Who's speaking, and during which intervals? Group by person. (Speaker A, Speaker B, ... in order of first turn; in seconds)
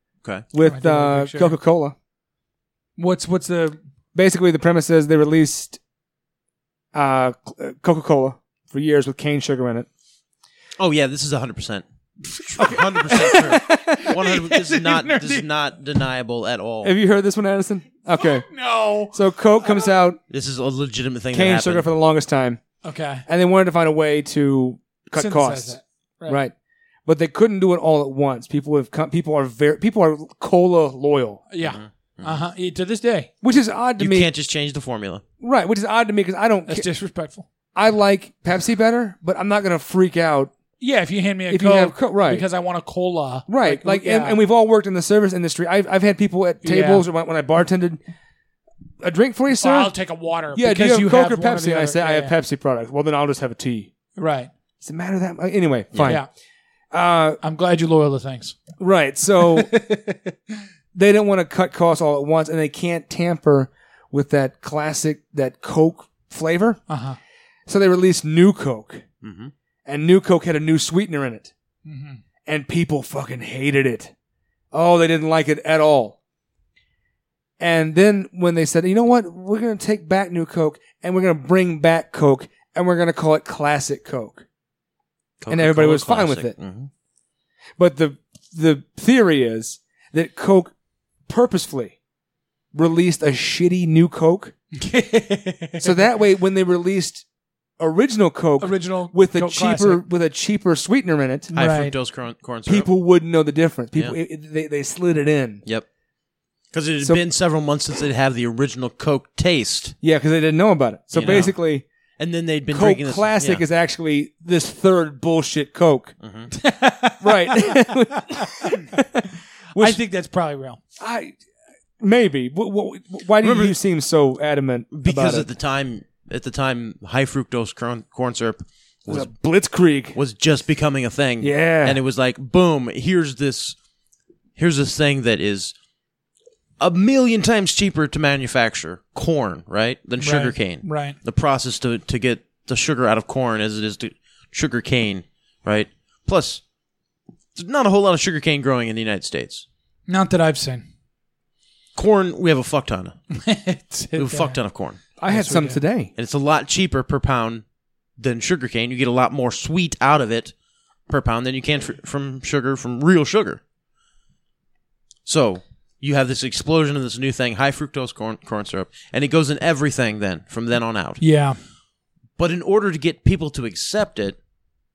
Speaker A: 0.5-1.9, 4.1-5.8, 6.9-9.9, 13.2-13.9, 16.8-18.5, 19.1-20.2, 21.3-22.6, 23.3-26.5, 27.1-31.4, 33.4-34.3, 35.4-36.9, 37.7-40.5, 41.5-42.4, 43.5-48.0, 49.0-49.9, 50.5-53.9, 54.8-56.2, 56.9-57.4, 58.8-59.7, 60.9-66.8, 67.7-69.0, 69.8-71.5, 72.5-74.1, 74.7-76.2, 77.6-84.4, 85.5-86.5, 87.8-90.7, 91.3-91.9, 92.7-94.5, 95.8-97.2, 97.8-101.5, 102.7-105.6, 110.0-111.8, 112.7-116.1, 117.2-120.0, 121.0-121.3, 122.0-125.5, 129.1-130.2, 131.4-132.0, 155.2-156.1
Speaker B: 0.6-1.6, 3.0-3.8, 12.6-15.5, 18.1-19.1, 22.8-23.2, 25.1-26.4, 31.5-33.3, 36.7-37.5, 40.8-44.4, 46.6-47.0, 49.6-52.3, 54.2-54.5, 57.4-58.6, 59.4-60.3, 66.9-67.2, 71.8-72.2, 94.7-96.0, 98.6-100.0, 101.5-101.9, 111.2-111.5, 116.5-118.9, 119.8-120.8, 140.2-141.1, 150.1-150.8, 153.3-154.6, 155.3-155.8, 171.2-171.6
Speaker C: 10.8-11.8, 12.4-16.9, 20.3-21.9, 31.6-32.4, 34.0-35.2, 55.9-56.2, 69.2-69.5, 85.4-86.9, 101.5-102.9, 106.7-109.9, 111.1-111.5, 112.2-113.6, 116.2-116.5, 123.4-123.8, 124.9-129.3, 130.1-133.8, 134.6-135.7, 136.8-146.6, 147.6-149.6, 151.9-153.2, 154.2-155.0, 156.2-157.6, 158.2-160.5, 161.1-163.6, 165.2-171.2, 172.4-174.4